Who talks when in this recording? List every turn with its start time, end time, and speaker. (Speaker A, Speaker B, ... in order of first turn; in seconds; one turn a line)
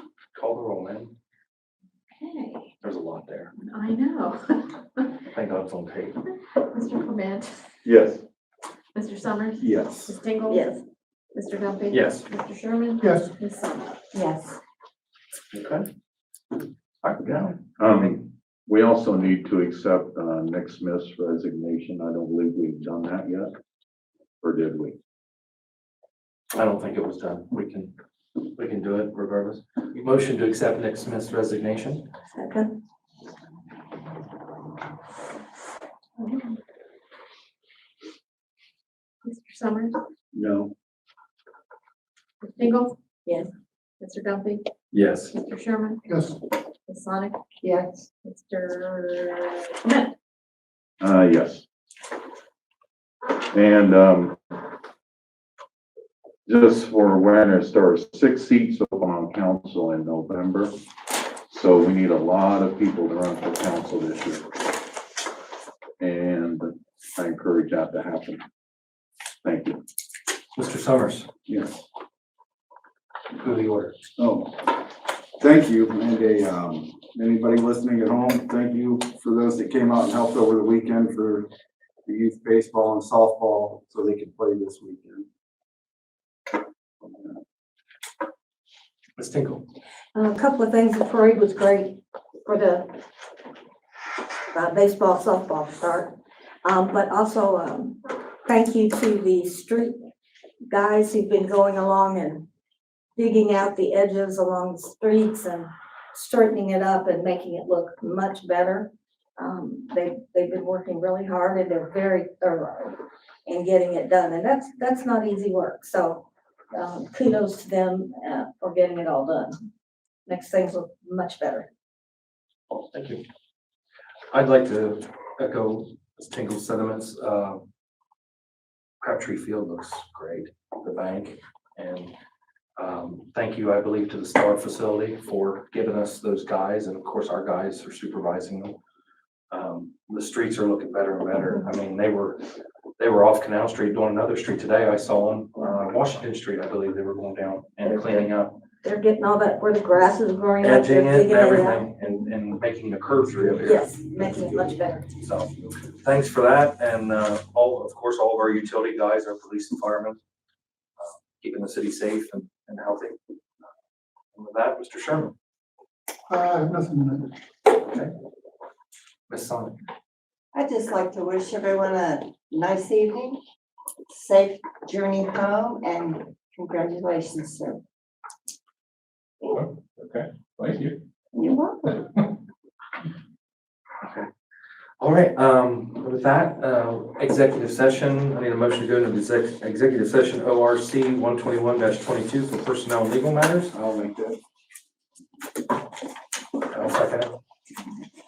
Speaker A: 0.3-1.1
Speaker B: 2.1-2.6
Speaker A: 2.8-3.5
Speaker B: 3.5-5.1
Speaker A: 5.3-6.2
Speaker B: 6.5-7.5
Speaker C: 7.8-8.2
Speaker B: 8.9-10.8
Speaker D: 9.6-10.2
Speaker E: 10.5-10.8
Speaker B: 11.3-13.9
Speaker A: 11.9-12.2
Speaker F: 14.1-14.6
Speaker A: 15.5-15.9
Speaker A: 17.0-18.2
Speaker C: 17.8-23.5
Speaker C: 24.4-25.0
Speaker A: 26.5-27.9
Speaker A: 28.5-32.0
Speaker E: 32.3-32.7
Speaker B: 36.2-36.5
Speaker B: 39.2-40.0
Speaker D: 40.3-40.7
Speaker B: 42.4-43.0
Speaker B: 44.0-44.6
Speaker A: 44.9-45.3
Speaker B: 45.3-46.3
Speaker B: 46.9-47.4
Speaker F: 47.6-48.0
Speaker B: 48.2-50.1
Speaker C: 51.0-51.6
Speaker C: 53.5-54.4
Speaker C: 56.5-60.7
Speaker C: 61.5-64.5
Speaker C: 66.0-68.4
Speaker C: 69.4-69.8
Speaker A: 70.5-71.3
Speaker D: 71.5-71.8
Speaker A: 73.4-73.9
Speaker D: 74.2-74.8
Speaker D: 75.4-81.5
Speaker D: 82.0-85.2
Speaker A: 89.2-89.6
Speaker E: 90.1-92.9
Speaker E: 94.5-100.0
Speaker E: 100.7-102.5
Speaker E: 103.2-119.7
Speaker E: 120.3-121.7
Speaker A: 122.9-123.2
Speaker A: 124.3-127.6
Speaker A: 129.0-132.1
Speaker A: 132.8-138.8
Speaker A: 139.5-142.4
Speaker A: 143.0-148.6
Speaker E: 148.8-152.1
Speaker A: 150.6-153.9
Speaker E: 153.6-155.1
Speaker A: 155.2-160.2
Speaker A: 161.0-163.2
Speaker A: 164.3-165.3
Speaker A: 167.8-168.1
Speaker A: 169.3-169.8
Speaker F: 170.5-173.4
Speaker F: 174.1-177.8
Speaker A: 179.5-180.8
Speaker F: 181.3-182.0
Speaker A: 184.0-184.3
Speaker A: 185.0-193.7
Speaker D: 193.7-194.4
Speaker A: 196.7-197.3